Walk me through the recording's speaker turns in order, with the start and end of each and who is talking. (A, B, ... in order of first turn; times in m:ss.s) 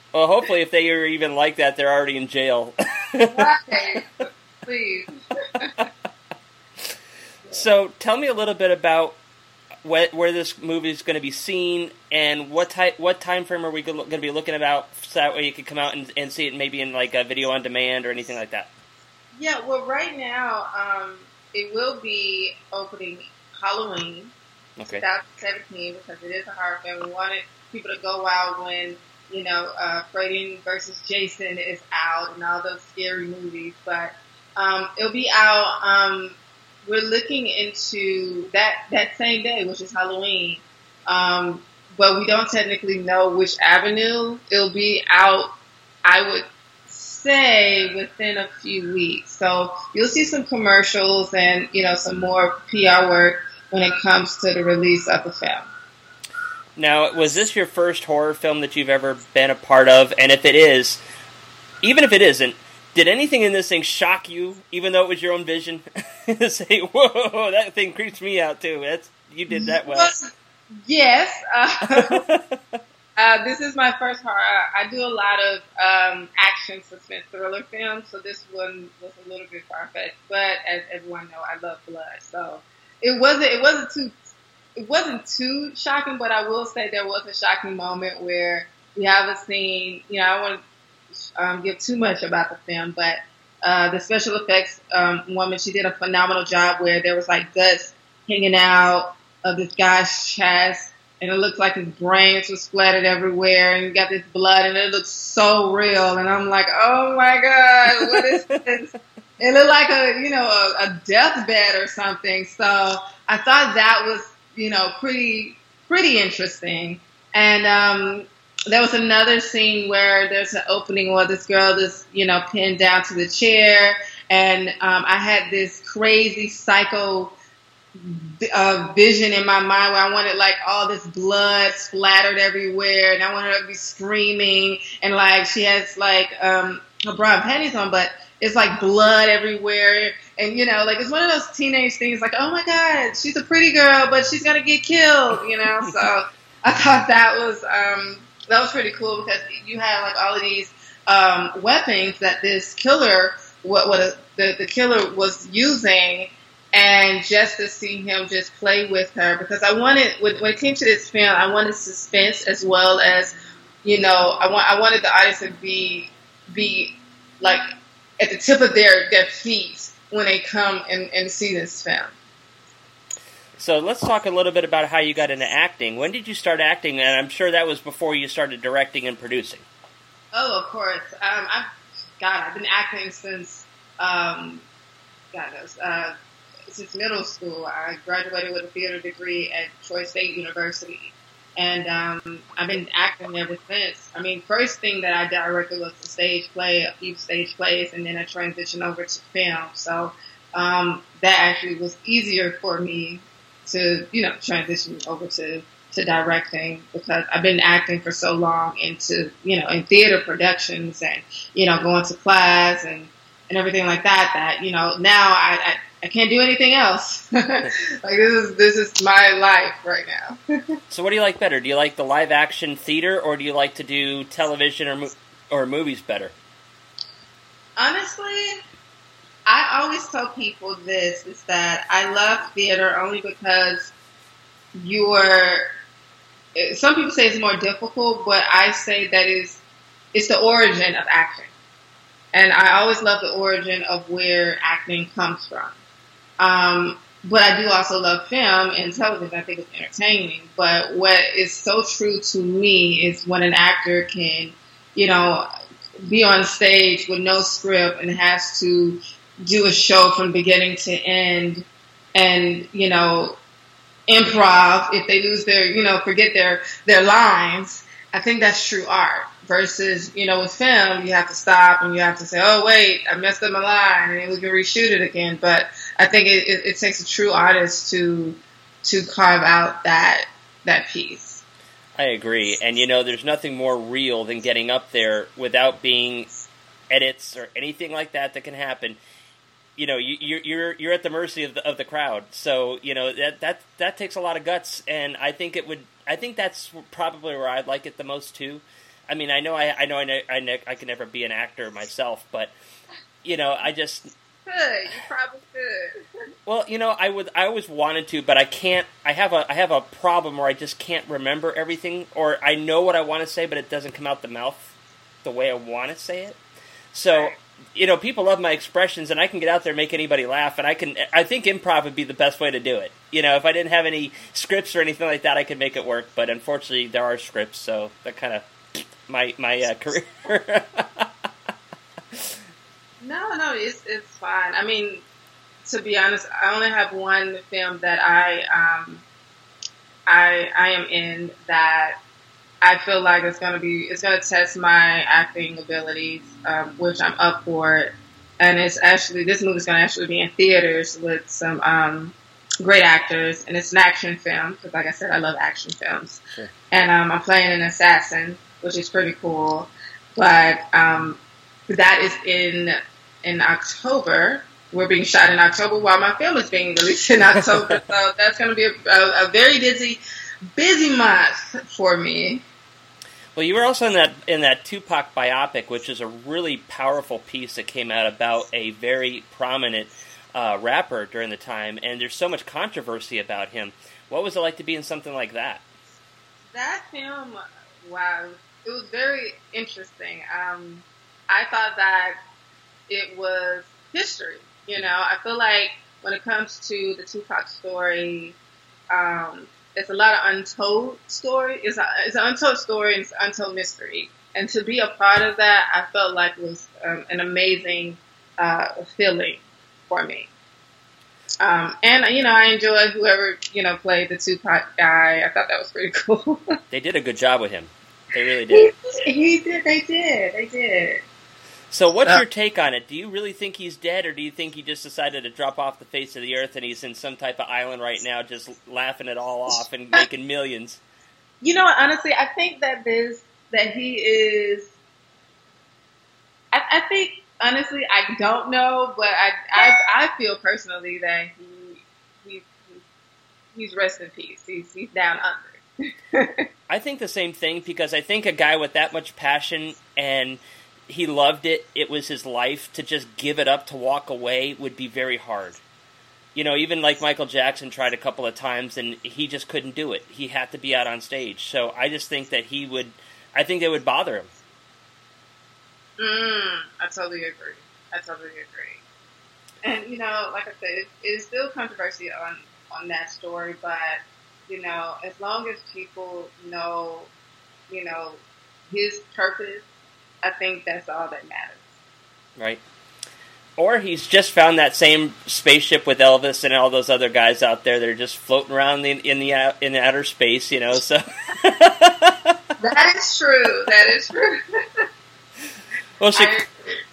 0:00.1-0:03.5 A
0:03.3-0:05.7 B
0:07.5-0:09.2 A
0:09.8-0:18.7 A
0:19.4-0:24.3 B
0:24.8-0:25.0 A
0:24.9-0:45.5 B
0:46.0-0:55.6 B
0:56.8-1:01.0 A
1:01.8-1:10.1 A
1:09.5-1:10.3 B
1:10.8-1:12.2 B
1:11.9-1:12.8 A
1:13.2-1:24.1 B
1:24.8-1:30.6 B
1:31.4-1:48.9 B
1:48.0-1:48.6 A
1:49.4-2:07.3 B
2:08.0-2:47.6 B
2:48.2-2:52.1 B
2:53.6-2:59.6 A
3:00.3-3:01.7 B
3:02.2-3:04.6 B
3:05.3-3:06.1 B
3:06.7-3:40.4 B
3:40.9-3:46.3 A
3:47.8-3:48.6 B
3:49.4-3:53.9 B
3:54.8-3:55.7 B
3:56.6-3:59.6 B
4:00.1-4:01.5 B
4:02.3-4:05.7 B
4:06.4-4:15.5 B
4:16.0-4:23.4 B
4:24.1-4:41.4 B
4:42.0-4:46.3 A
4:46.9-4:49.0 A
4:49.8-5:02.5 A
5:03.2-5:04.1 A
5:04.4-5:06.0 B
5:06.4-5:14.7 A
5:15.2-5:16.4 A
5:16.9-5:28.4 A
5:29.1-5:31.0 A
5:33.0-5:35.0 B
5:35.6-5:39.0 B
5:40.1-5:42.0 B
5:42.6-6:10.0 B
6:10.6-6:12.4 B
6:13.4-6:25.6 A
6:26.5-6:32.2 B
6:32.9-6:38.4 B
6:38.9-6:50.3 B
6:51.4-6:56.4 B
6:56.7-6:58.7 A
6:58.5-7:01.0 B
7:01.7-7:10.8 A
7:11.4-7:14.7 B
7:16.5-7:22.8 B
7:23.5-7:25.6 B
7:26.1-7:26.4 B
7:26.7-7:35.6 A
7:36.3-7:44.3 A
7:46.0-7:48.8 B
7:49.6-7:57.1 B
7:57.7-7:59.6 B
8:00.2-8:01.7 B
8:03.6-8:12.3 A
8:12.6-8:14.4 B
8:16.0-8:16.4 A
8:16.1-8:16.8 B